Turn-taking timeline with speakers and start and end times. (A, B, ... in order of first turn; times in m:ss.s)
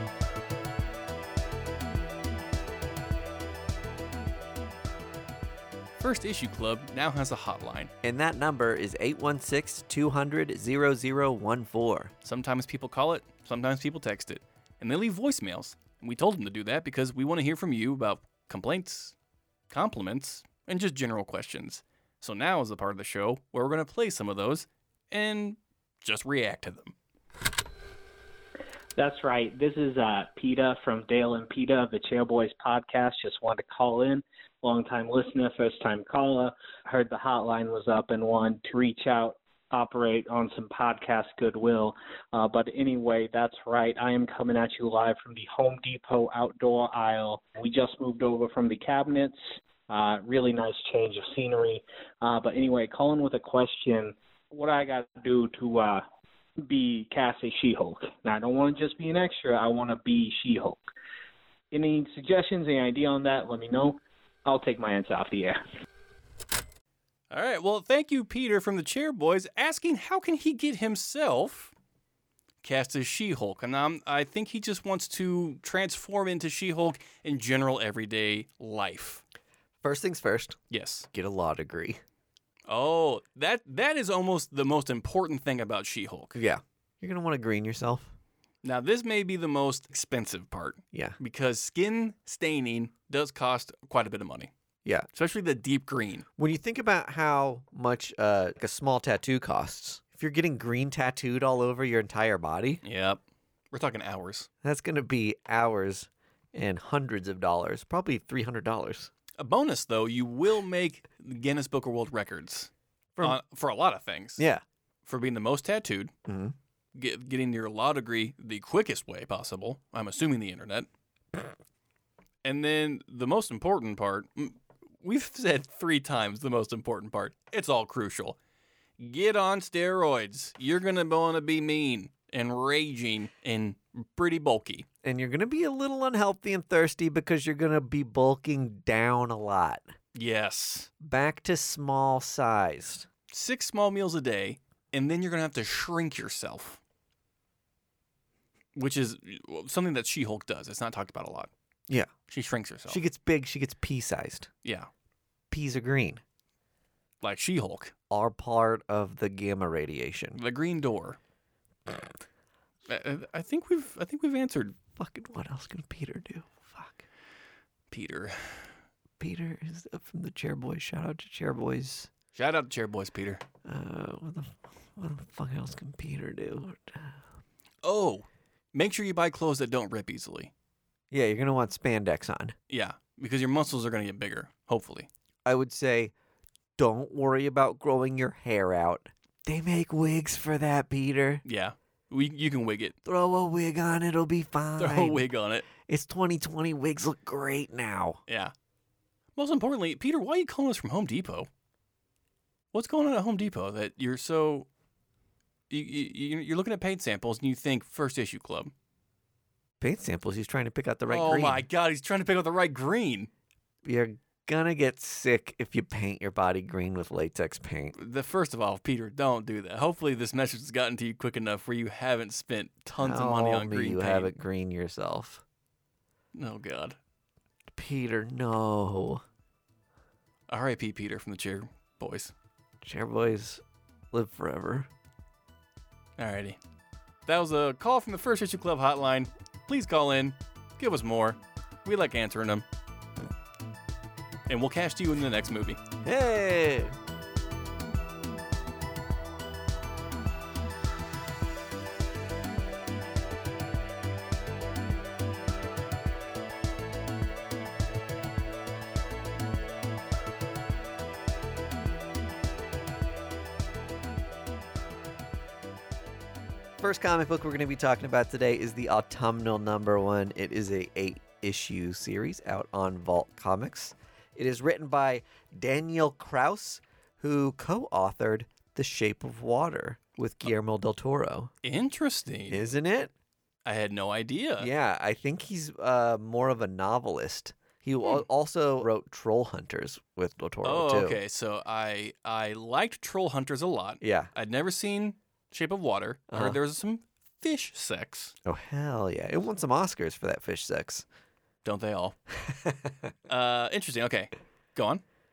0:06.0-0:07.9 A
0:08.0-0:12.1 B
0:12.2-0:19.2 A
0:19.7-0:26.9 A
0:29.0-0:49.4 C
0:49.9-0:56.0 C
0:56.6-1:00.8 C
1:01.7-1:05.6 C
1:07.3-1:11.7 A
1:12.6-1:19.2 A
1:19.8-1:20.6 B
1:20.7-1:21.1 A
1:21.1-1:22.0 B
1:22.7-1:26.4 A
1:26.4-1:28.1 B
1:28.6-1:34.5 A
1:35.1-1:36.3 A
1:36.4-1:42.8 B
1:42.8-1:43.2 A
1:43.7-1:44.5 A
1:44.6-1:49.1 B
1:49.4-1:52.7 A
1:53.2-1:54.4 A
1:55.1-1:56.1 A
1:56.3-1:56.6 B
1:57.0-2:00.9 A
2:02.4-2:08.4 A
2:09.0-2:14.9 A
2:15.0-2:19.8 B
2:20.2-2:20.9 A
2:21.0-2:23.1 B
2:23.3-2:26.8 A
2:28.8-2:31.5 A
2:32.3-2:33.0 A
2:32.9-2:34.5 B
2:34.6-2:34.9 A
2:35.5-2:36.2 B
2:37.2-2:37.9 A
2:38.1-2:40.4 B
2:40.4-2:41.2 A
2:42.9-2:44.8 A
2:45.0-2:47.0 B
2:47.9-2:48.7 A
2:49.2-2:52.1 B
2:52.3-2:53.4 A
2:53.6-2:57.1 B
2:57.8-3:00.5 A
3:01.1-3:02.6 B
3:02.7-3:05.1 A
3:05.4-3:06.1 B
3:06.8-3:11.4 B
3:11.4-3:13.0 A
3:13.0-3:15.2 B
3:14.8-3:15.7 A
3:15.8-3:18.2 B
3:18.3-3:18.5 A
3:19.4-3:21.5 A
3:22.7-3:24.7 A
3:25.7-3:28.7 A
3:29.8-3:31.6 B
3:31.1-3:33.3 A
3:33.8-3:38.0 B
3:37.9-3:44.3 A
3:43.0-3:45.4 B
3:46.3-3:47.0 A
3:47.7-3:49.2 B
3:50.5-3:52.3 A
3:52.8-3:54.9 B
3:56.2-3:56.6 A
3:57.3-4:02.6 A
4:04.5-4:05.8 A
4:06.0-4:07.0 B
4:26.8-4:41.5 B
4:41.6-4:42.6 A
4:42.5-4:43.1 B
4:43.6-4:44.7 A
4:44.6-4:51.2 B
4:50.6-4:58.3 A
4:54.0-4:54.3 B
4:56.3-4:56.6 B
4:58.4-5:01.0 B
5:01.6-5:02.2 A
5:02.4-5:03.1 B
5:03.3-5:05.0 A